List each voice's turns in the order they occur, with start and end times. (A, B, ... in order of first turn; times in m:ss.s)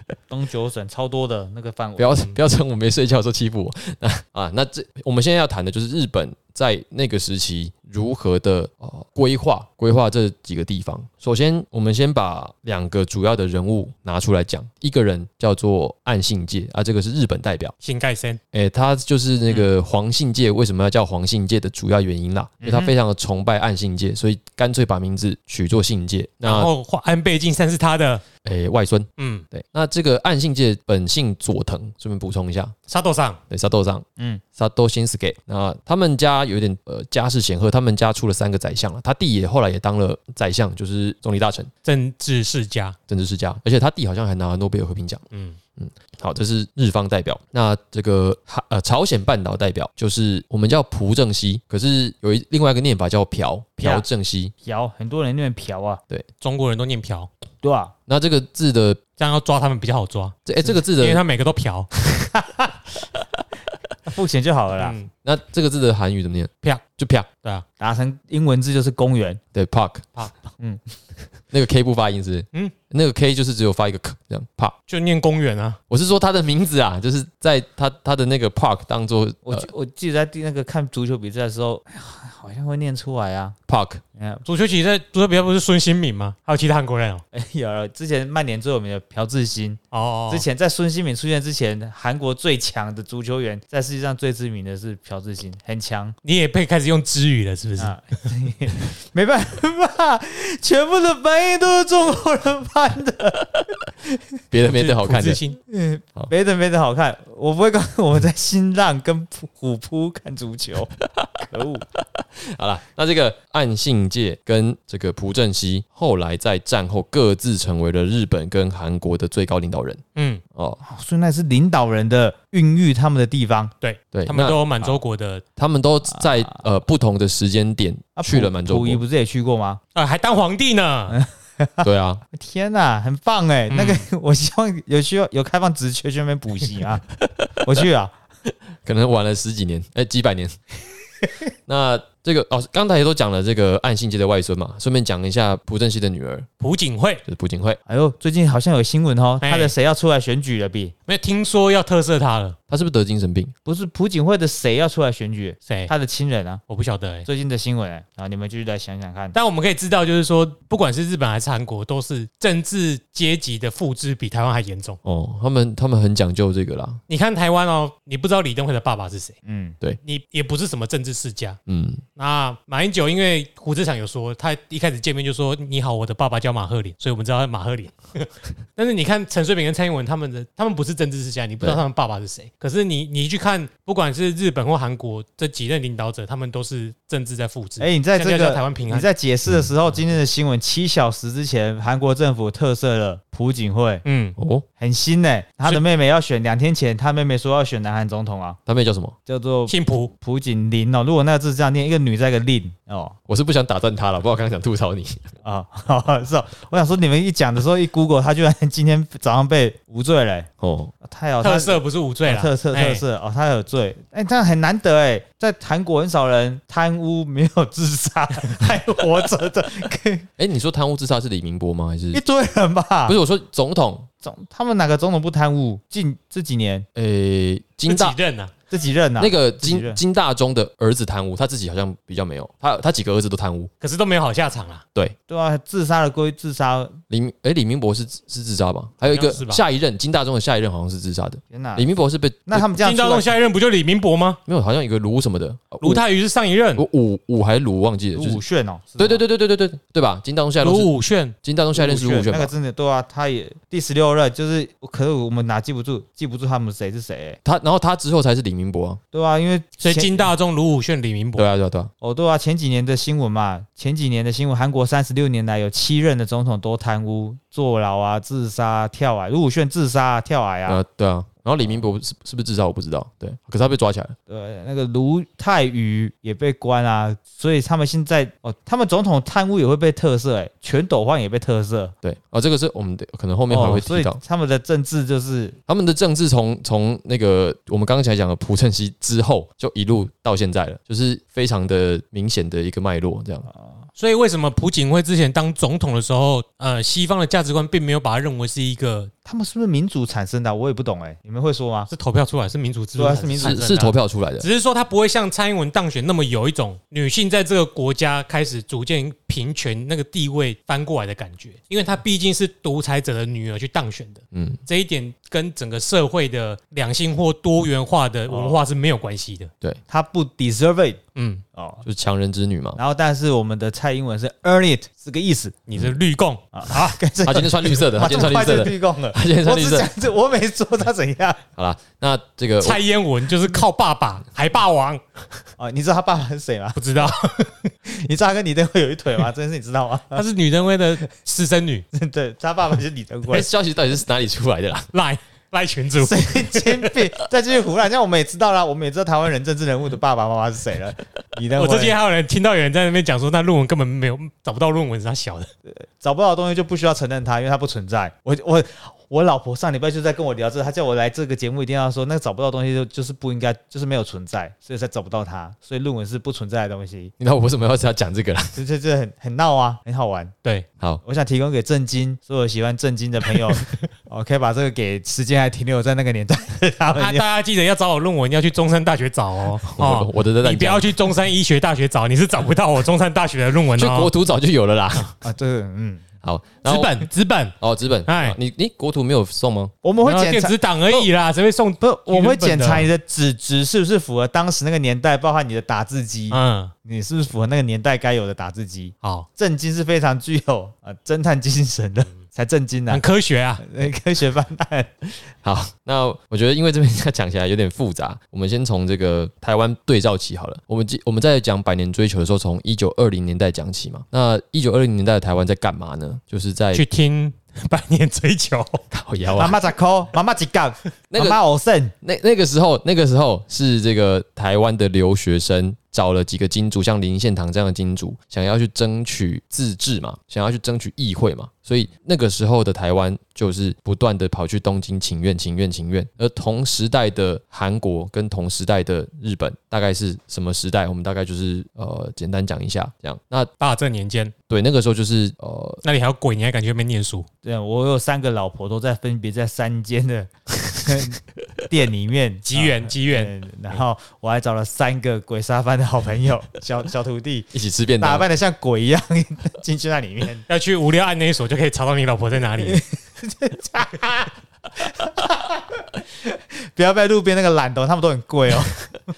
0:00.3-0:02.2 A
0:02.0-0:17.7 B
0:17.8-0:18.4 C
0:18.5-0:26.7 B
0:22.6-0:22.9 A
0:26.4-0:28.2 C
0:28.4-0:32.7 B
0:29.2-0:29.4 C
0:32.9-0:33.4 C
0:33.5-0:41.7 B
0:41.8-0:43.0 C
0:43.1-0:45.2 B
0:45.3-0:45.6 C
0:45.8-0:54.5 B
0:53.8-0:54.0 A
0:54.6-0:56.0 A
0:56.4-0:57.3 C
0:57.6-0:57.9 A
0:58.1-0:59.0 B
0:59.2-1:01.9 C
1:00.4-1:01.2 B
1:02.3-1:02.8 A
1:04.1-1:05.0 A
1:04.8-1:05.1 C
1:05.2-1:07.3 B
1:07.8-1:09.4 A
1:09.5-1:10.1 B
1:11.5-1:14.7 B
1:14.9-1:15.8 C
1:15.9-1:19.7 B
1:19.4-1:23.6 A
1:23.7-1:24.0 B
1:24.2-1:24.4 A
1:24.4-1:27.2 C
1:27.3-1:36.2 A
1:29.9-1:30.4 C
1:36.2-1:38.0 C
1:37.8-1:44.2 A
1:44.5-1:45.4 B
1:44.6-1:45.6 C
1:45.7-1:50.9 A
1:51.1-1:51.4 B
1:51.5-1:51.8 A
1:52.0-2:00.0 B
2:00.1-2:00.4 C
2:00.5-2:00.8 B
2:00.8-2:03.7 A
2:03.8-2:05.4 C
2:04.1-2:04.6 B
2:05.6-2:09.0 B
2:06.1-2:06.5 A
2:08.2-2:09.8 A
2:09.9-2:11.2 C
2:11.1-2:17.0 A
2:11.8-2:12.2 B
2:13.7-2:14.0 C
2:17.3-2:17.6 B
2:17.6-2:18.1 A
2:18.8-2:20.6 B
2:21.6-2:26.5 B
2:26.6-2:27.2 C
2:27.3-2:27.8 B
2:27.9-2:30.9 A
2:29.4-2:29.7 C
2:31.1-2:32.6 C
2:32.7-2:33.5 B
2:33.6-2:36.6 A
2:36.7-2:37.3 C
2:37.2-2:39.4 A
2:39.3-2:45.0 C
2:45.0-2:47.0 B
2:47.1-2:49.4 C
2:49.4-2:49.8 A
2:50.0-2:51.6 C
2:51.7-2:52.0 B
2:52.2-3:09.1 C
3:07.8-3:14.0 A
3:14.0-3:14.4 C
3:14.4-3:14.6 B
3:14.8-3:18.6 A
3:18.6-3:19.2 B
3:19.2-3:23.2 A
3:19.7-3:20.1 C
3:23.3-3:25.3 B
3:25.4-3:30.5 A
3:30.6-3:30.9 B
3:31.0-3:40.3 A
3:31.4-3:33.0 C
3:40.4-3:42.2 B
3:42.1-3:43.2 A
3:43.0-3:44.1 B
3:44.2-3:46.9 A
3:46.9-3:48.2 B
3:47.9-3:48.5 C
3:48.7-3:50.0 A
3:49.2-3:53.7 B
3:53.8-3:54.8 C
3:55.3-3:57.0 A
3:57.1-4:02.5 B
3:59.0-3:59.6 C
4:01.5-4:01.8 A
4:02.5-4:03.3 A
4:02.6-4:04.4 C
4:04.4-4:06.0 B
4:05.8-4:06.8 C
4:06.8-4:08.4 B
4:08.1-4:09.2 A
4:09.0-4:10.9 B
4:10.6-4:11.4 C
4:11.4-4:12.5 B
4:11.7-4:17.4 A
4:17.4-4:19.0 B
4:19.1-4:20.3 A
4:19.8-4:21.5 C
4:21.4-4:21.9 B
4:22.0-4:30.8 A
4:30.6-4:34.1 B
4:34.3-4:41.9 A
4:42.0-4:44.2 B
4:43.5-4:45.6 A
4:45.7-4:53.5 B
4:53.5-4:53.8 A
4:54.0-4:59.1 C
4:59.2-5:01.9 A
5:01.9-5:19.5 C
5:03.0-5:03.6 A
5:03.4-5:04.4 B
5:14.3-5:14.6 B
5:18.3-5:18.6 A
5:19.9-5:21.0 A
5:21.2-5:21.4 C
5:21.5-5:21.8 A
5:21.8-5:22.8 B
5:22.8-5:25.6 A
5:25.7-5:26.9 C
5:26.5-5:31.4 A
5:27.2-5:29.9 B
5:31.6-5:32.8 B
5:32.6-5:35.0 C
5:35.6-5:37.2 A
5:36.8-5:37.7 C
5:37.8-5:40.2 A
5:40.1-5:41.8 C
5:41.9-5:43.5 A
5:43.3-5:44.9 B
5:44.9-5:47.0 C
5:46.0-5:52.0 A
5:51.5-5:55.5 C
5:55.7-6:07.1 A
6:07.2-6:08.6 B
6:08.6-6:10.3 A
6:11.0-6:17.2 A
6:16.9-6:24.1 C
6:19.6-6:20.9 B
6:23.8-6:25.1 B
6:25.2-6:26.0 A
6:26.2-6:27.1 B
6:26.6-6:28.4 C
6:27.6-6:29.7 B
6:29.8-6:31.1 A
6:30.0-6:32.9 C
6:31.8-6:43.0 A
6:36.3-6:36.7 C
6:42.9-6:43.6 C
6:43.6-6:44.9 A
6:45.4-6:56.8 B
6:56.7-6:58.8 C
6:58.9-6:59.6 B
6:59.3-7:01.9 A
7:01.1-7:01.4 B
7:02.0-7:23.5 B
7:23.6-7:24.3 C
7:24.5-7:25.8 B
7:25.8-7:27.3 C
7:27.4-7:40.4 A
7:32.4-7:33.3 C
7:37.5-7:38.2 B
7:40.5-7:42.8 C
7:42.6-7:48.9 A